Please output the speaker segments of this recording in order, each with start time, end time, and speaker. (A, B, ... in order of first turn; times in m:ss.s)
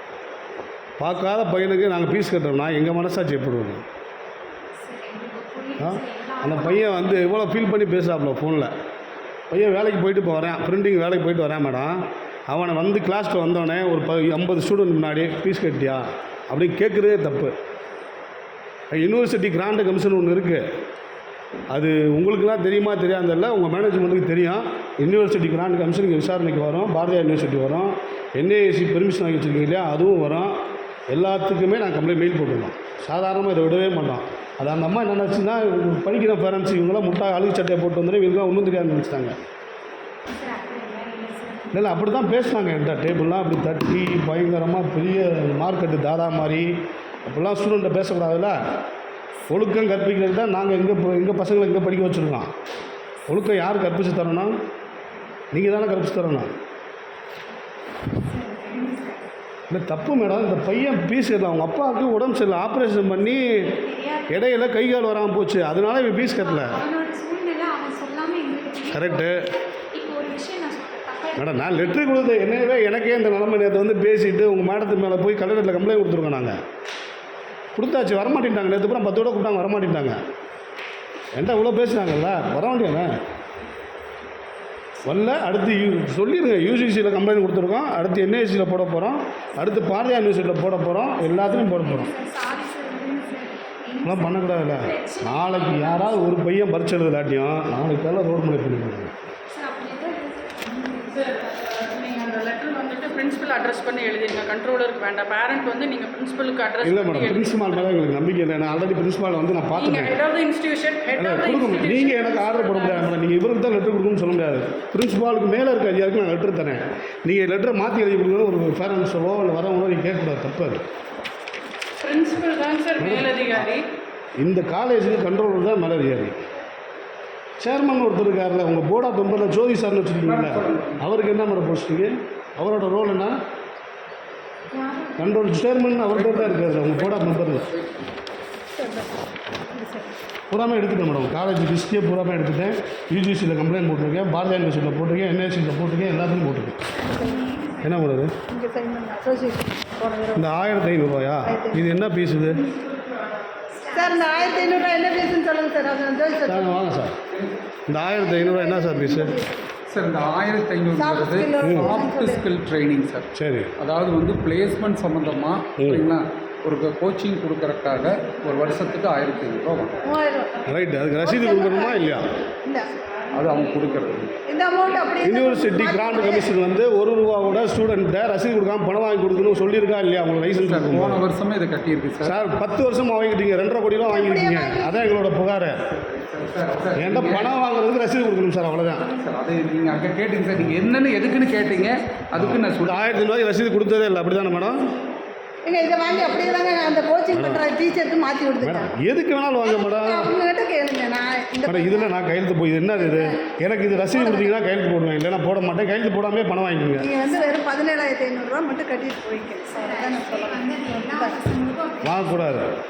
0:01.0-0:03.8 A
0:04.8-0:06.8 B
0:05.8-0:08.7 A
0:09.5-0:17.6 A
0:18.9-0:20.6 A
0:21.7-0:30.5 A
0:31.1-0:39.4 A
0:40.3-0:41.7 B
0:41.7-0:46.7 A
0:47.2-0:48.6 A
0:49.5-0:52.5 A
0:53.3-0:54.6 A
0:55.5-0:56.5 A
0:58.2-0:59.3 B
0:59.7-1:03.8 A
1:03.7-1:04.3 B
1:04.3-1:06.8 A
1:06.5-1:11.9 B
1:08.9-1:09.5 A
1:11.4-1:16.6 A
1:17.8-1:20.2 A
1:21.3-1:23.1 A
1:25.0-1:32.1 A
1:31.3-1:36.1 B
1:34.0-1:39.1 A
1:39.5-1:41.6 B
1:40.9-1:47.9 C
1:46.8-1:50.2 A
1:49.8-1:53.2 C
1:51.2-2:00.8 A
2:02.0-2:03.8 C
2:03.0-2:03.7 A
2:04.4-2:06.4 A
2:07.6-2:13.4 A
2:10.2-2:11.0 D
2:14.7-2:15.2 B
2:15.2-2:17.7 A
2:16.1-2:18.1 D
2:18.8-2:20.2 E
2:20.5-2:26.9 A
2:27.0-2:28.0 B
2:27.0-2:27.5 E
2:27.8-2:28.3 A
2:28.5-2:30.5 E
2:30.4-2:32.7 A
2:31.4-2:31.9 E
2:33.7-2:35.0 B
2:33.9-2:36.8 E
2:33.9-2:34.3 C
2:36.4-2:37.2 A
2:37.9-2:39.4 A
2:38.1-2:39.6 E
2:39.9-2:43.3 D
2:40.9-2:42.5 E
2:41.6-2:42.0 A
2:43.3-2:43.7 A
2:43.8-2:50.0 D
2:45.8-2:46.1 A
2:50.0-2:50.5 E
2:50.7-2:52.3 A
2:51.2-2:52.9 E
2:53.3-2:54.4 D
2:54.5-2:56.5 E
2:55.2-3:01.2 A
3:00.5-3:02.4 D
3:02.2-3:05.8 A
3:04.0-3:05.1 E
3:05.9-3:07.5 D
3:07.0-3:09.1 A
3:09.0-3:13.1 D
3:12.4-3:14.9 A
3:15.6-3:18.9 E
3:16.3-3:16.8 D
3:17.3-3:17.7 A
3:18.6-3:20.3 A
3:19.6-3:22.2 E
3:21.7-3:27.1 A
3:22.9-3:24.6 E
3:27.0-3:31.4 E
3:29.7-3:32.2 B
3:32.0-3:32.7 A